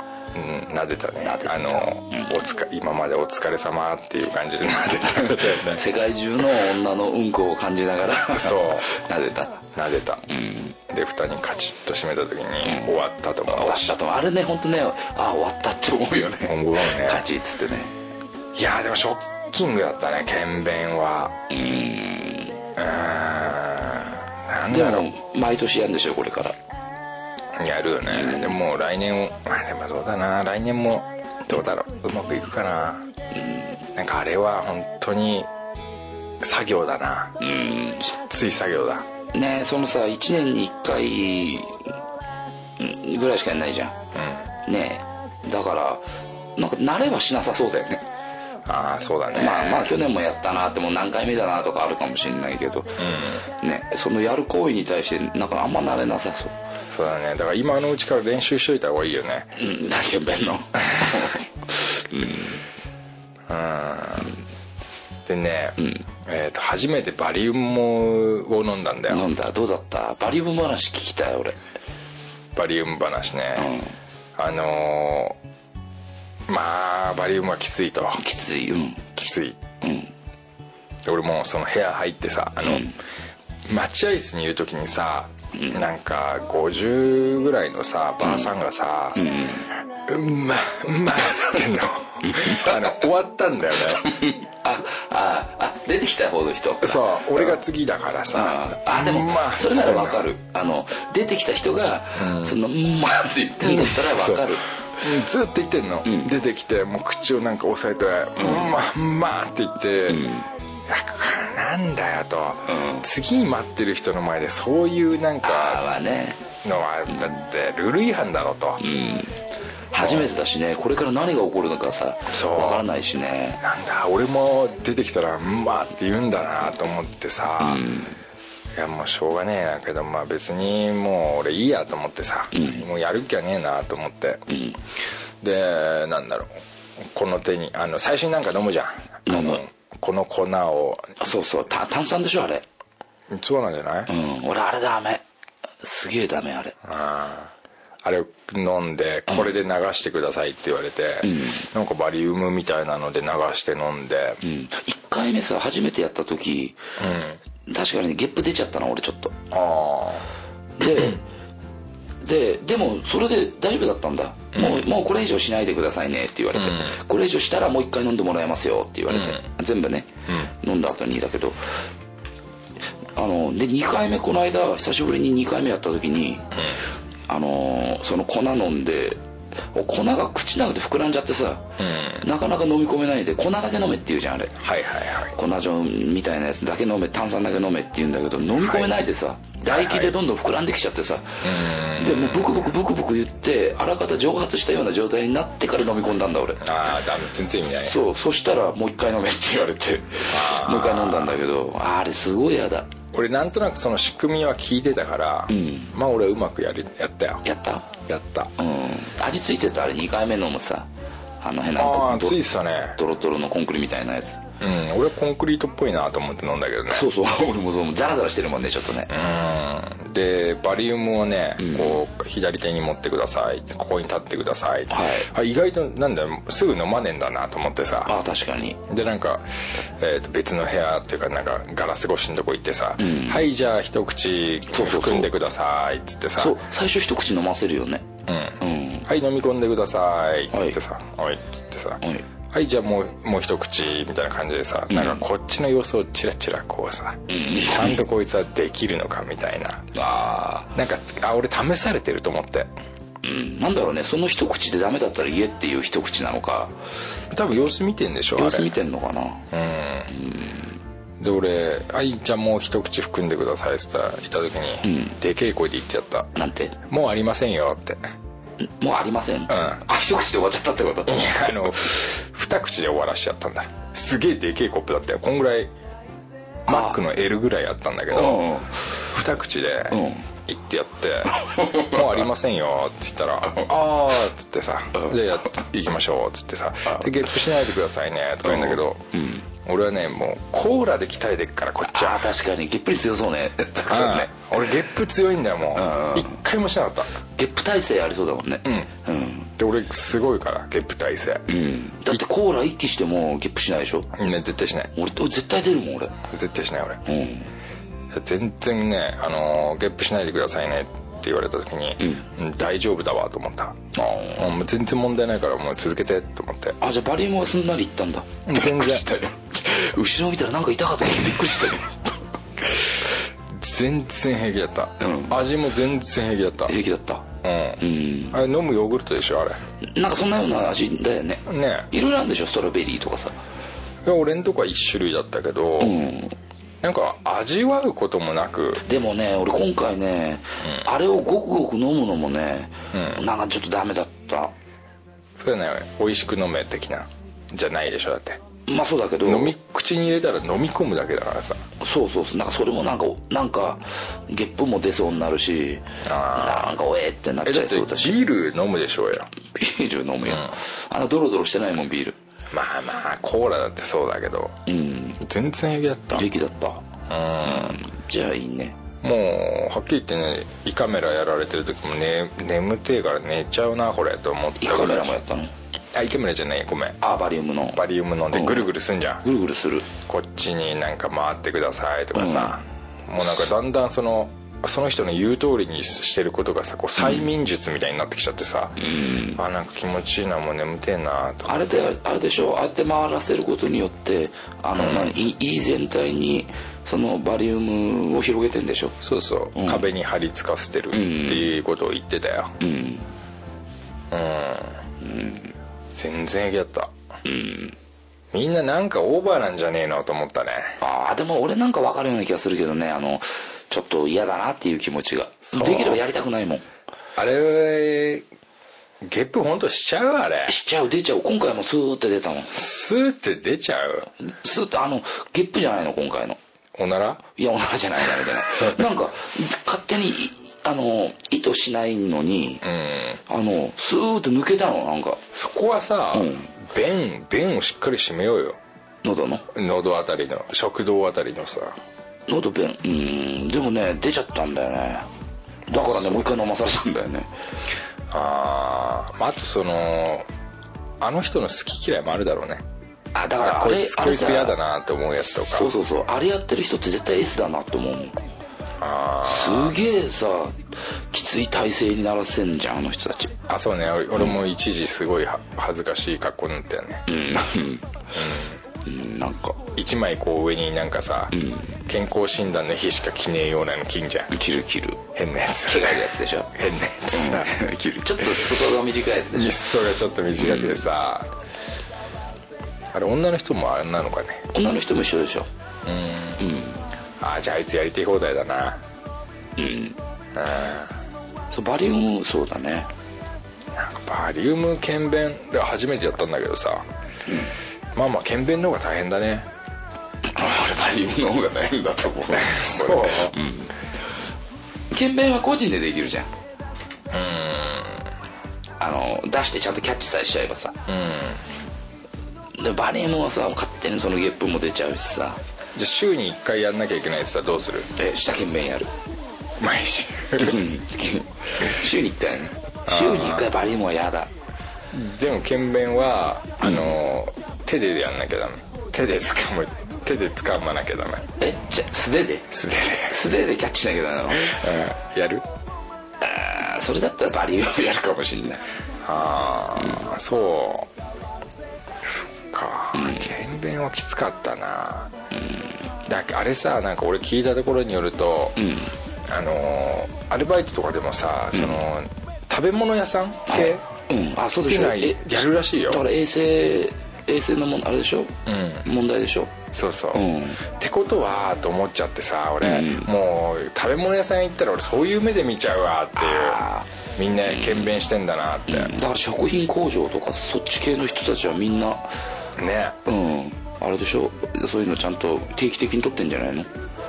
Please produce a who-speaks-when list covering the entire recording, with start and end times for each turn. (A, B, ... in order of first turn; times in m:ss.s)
0:00.3-0:05.8 A
0:01.2-0:02.4 B
0:05.2-0:09.7 B
0:08.3-0:08.9 A
0:09.8-0:10.3 A
0:10.3-0:10.8 B
0:10.9-0:14.0 A
0:12.6-0:18.0 B
0:16.4-0:17.3 A
0:18.5-0:21.4 A
0:21.5-0:22.6 B
0:22.8-0:25.1 A
0:24.7-0:26.6 B
0:27.5-0:33.1 A
0:28.1-0:28.6 B
0:33.3-0:33.8 B
0:33.9-0:35.5 A
0:36.4-0:37.4 A
0:37.4-0:38.1 B
0:38.0-0:39.1 A
0:39.3-0:42.0 B
0:42.8-0:44.0 B
0:44.1-0:44.5 A
0:44.6-0:48.0 B
0:48.7-0:50.0 A
0:49.3-0:56.6 B
0:53.0-0:53.4 A
0:56.9-0:59.6 A
0:59.6-1:02.6 B
1:03.5-1:04.4 A
1:05.3-1:09.3 A
1:05.8-1:06.0 B
1:09.1-1:11.6 B
1:12.6-1:13.8 A
1:13.6-1:13.9 B
1:14.4-1:15.4 A
1:16.5-1:18.2 A
1:18.2-1:19.1 B
1:19.2-1:19.6 A
1:19.8-1:20.1 B
1:21.0-1:22.9 A
1:22.6-1:23.0 B
1:23.7-1:29.3 A
1:25.5-1:25.9 B
1:28.2-1:28.5 B
1:29.2-1:29.7 B
1:30.0-1:34.2 A
1:32.3-1:32.9 B
1:34.0-1:37.6 B
1:36.8-1:40.3 A
1:38.3-1:44.7 B
1:42.2-1:42.6 A
1:43.6-1:50.3 A
1:48.4-1:48.8 B
1:50.1-1:50.5 B
1:50.9-1:55.9 A
1:52.7-1:53.1 B
1:55.4-1:56.4 B
1:56.6-1:58.8 A
1:58.8-2:03.6 B
2:00.0-2:00.3 A
2:02.3-2:02.9 A
2:03.6-2:07.9 A
2:07.6-2:08.2 B
2:08.8-2:14.4 A
2:12.5-2:12.8 B
2:14.5-2:14.8 B
2:15.4-2:21.2 A
2:19.3-2:19.6 B
2:21.2-2:22.6 B
2:23.3-2:24.1 A
2:24.1-2:25.2 B
2:25.8-2:26.8 B
2:26.8-2:34.4 A
2:31.2-2:31.7 B
2:34.4-2:36.8 B
2:37.0-2:37.4 A
2:37.7-2:39.4 B
2:39.5-2:40.3 A
2:40.8-2:41.2 B
2:42.2-2:51.7 B
2:44.5-2:44.9 A
2:46.5-2:47.0 A
2:49.1-2:49.4 A
2:53.2-2:56.7 B
2:57.3-2:59.2 B
2:59.7-3:04.6 B
3:01.8-3:02.3 A
3:04.6-3:05.4 A
3:05.3-3:16.7 B
3:08.6-3:09.0 A
3:09.6-3:10.2 A
3:11.4-3:12.7 A
3:16.6-3:18.0 A
3:17.6-3:22.9 B
3:20.3-3:21.4 A
3:23.1-3:27.4 A
3:25.5-3:25.9 B
3:27.4-3:27.9 B
3:28.0-3:28.5 A
3:28.6-3:30.9 B
3:31.4-3:32.4 B
3:31.8-3:33.0 A
3:33.0-3:34.4 B
3:34.6-3:37.1 A
3:36.9-3:39.1 B
3:39.1-3:48.2 A
3:41.6-3:42.0 B
3:44.9-3:45.3 B
3:48.1-3:48.8 B
3:48.9-3:56.6 A
3:53.0-3:53.5 B
3:54.7-3:55.3 B
3:56.4-3:58.0 B
3:58.3-4:09.9 A
3:58.6-3:59.1 B
4:00.5-4:00.8 B
4:04.9-4:05.2 B
4:07.3-4:08.0 B
4:09.9-4:10.7 B
4:10.7-4:12.7 A
4:13.2-4:16.7 B
4:17.3-4:18.7 A
4:18.4-4:19.5 B
4:19.5-4:20.2 A
4:20.1-4:20.8 B
4:21.2-4:28.1 A
4:24.8-4:25.2 B
4:26.4-4:26.8 B
4:28.6-4:31.5 B
4:29.5-4:29.8 A
4:31.1-4:35.7 A
4:36.7-4:52.3 A
4:36.7-4:37.0 B
4:38.1-4:38.9 B
4:39.9-4:40.3 B
4:41.4-4:42.0 B
4:48.4-4:49.5 B
4:51.9-4:54.3 B
4:53.9-4:57.1 A
4:55.7-4:56.4 B
4:57.4-4:59.5 B
4:58.6-4:58.9 A
4:59.6-5:01.5 A
5:01.5-5:04.1 B
5:04.1-5:04.9 A
5:05.0-5:06.2 B
5:06.2-5:07.0 A
5:07.0-5:07.5 B
5:08.1-5:13.8 A
5:13.9-5:14.6 B
5:14.4-5:16.8 A
5:16.8-5:22.2 B
5:18.5-5:19.1 A
5:23.5-5:26.8 A
5:25.0-5:25.4 B
5:26.7-5:27.3 B
5:27.4-5:29.6 A
5:27.8-5:28.4 B
5:29.8-5:33.4 B
5:31.5-5:31.9 A
5:34.0-5:36.0 A
5:35.8-5:36.4 B
5:36.8-5:38.8 A
5:38.8-5:44.5 B
5:42.9-5:43.2 A
5:45.4-5:48.4 A
5:48.7-5:49.6 B
5:49.2-5:51.6 A
5:51.8-5:58.2 B
5:56.0-5:56.8 A
5:57.4-5:59.3 A
5:59.5-6:02.2 B
6:00.3-6:00.6 A
6:02.5-6:04.6 A
6:04.7-6:05.2 B
6:05.2-6:06.3 A
6:06.1-6:06.8 B
6:07.1-6:07.8 A
6:07.4-6:08.8 B
6:09.0-6:15.2 A
6:14.6-6:15.5 B
6:15.9-6:17.0 A
6:17.0-6:18.7 B
6:17.7-6:19.2 A
6:19.2-6:19.9 B
6:20.0-6:31.9 A
6:22.2-6:22.6 B
6:27.0-6:27.3 B
6:28.8-6:29.4 B
6:31.5-6:39.0 B
6:34.8-6:35.2 A
6:39.0-6:42.6 A
6:39.5-6:39.8 B
6:40.9-6:41.5 B
6:42.6-6:43.1 B
6:44.1-6:44.8 A
6:45.0-6:45.5 B
6:45.9-6:46.9 A
6:47.2-6:47.8 B
6:48.3-6:50.8 A
6:50.8-6:56.7 B
6:55.5-6:56.0 A
6:57.2-6:58.3 A
6:59.0-7:00.6 A
7:00.5-7:02.6 B
7:02.5-7:04.1 A
7:04.2-7:06.4 B
7:06.8-7:07.2 A
7:07.4-7:12.6 B
7:12.6-7:13.2 A
7:13.3-7:15.2 B
7:15.3-7:18.6 A
7:16.1-7:16.5 B
7:19.0-7:19.4 B
7:19.5-7:21.8 A
7:22.3-7:25.1 B
7:25.7-7:27.3 B
7:25.7-7:26.2 A
7:28.1-7:30.3 A
7:31.0-7:32.6 A
7:33.1-7:34.6 B
7:33.4-7:35.7 A
7:35.2-7:38.2 B
7:38.8-7:39.8 A
7:39.2-7:43.4 B
7:43.5-7:47.1 A
7:47.1-7:47.9 B
7:48.1-7:48.6 A
7:48.8-7:49.6 B
7:49.8-7:51.4 A
7:51.3-7:51.7 B
7:51.9-7:54.3 A
7:54.3-7:55.0 B
7:55.1-7:57.6 A
7:55.7-7:56.5 B
7:57.1-7:59.6 B
7:58.2-7:58.6 A
7:59.3-8:01.3 A
8:00.4-8:00.8 B
8:02.9-8:04.5 A
8:04.5-8:05.5 B
8:05.8-8:06.4 A
8:06.4-8:06.8 B
8:07.2-8:08.8 A
8:09.6-8:10.0 B
8:10.3-8:11.0 A
8:11.5-8:12.9 B
8:13.7-8:16.9 A
8:17.3-8:17.5 B
8:18.0-8:19.5 A
8:20.2-8:23.7 B
8:22.3-8:23.4 A
8:24.9-8:26.3 B
8:27.1-8:28.1 A
8:28.8-8:30.8 B
8:30.9-8:31.4 A
8:32.5-8:35.4 B
8:35.8-8:37.9 A
8:38.0-8:38.9 B
8:39.6-8:40.7 A
8:40.4-8:44.3 B
8:42.9-8:43.5 A
8:44.9-8:51.3 A
8:46.6-8:46.9 B
8:51.4-8:52.5 B
8:52.5-8:53.2 A
8:53.1-8:54.6 B
8:54.3-8:55.5 A
8:56.2-8:58.6 B
8:59.0-9:00.9 A
9:02.0-9:05.1 A
9:02.9-9:03.3 B
9:05.3-9:05.7 B
9:06.1-9:08.6 A
9:08.6-9:09.0 B
9:09.3-9:13.8 A
9:11.5-9:11.8 B
9:13.5-9:19.6 B
9:14.6-9:16.0 A
9:18.5-9:18.9 A
9:19.7-9:26.6 A
9:20.1-9:20.6 B
9:22.6-9:23.1 B
9:26.2-9:26.9 B
9:27.2-9:29.0 A
9:27.5-9:28.0 B
9:28.7-9:32.2 B
9:32.6-9:33.0 A
9:33.0-9:36.7 B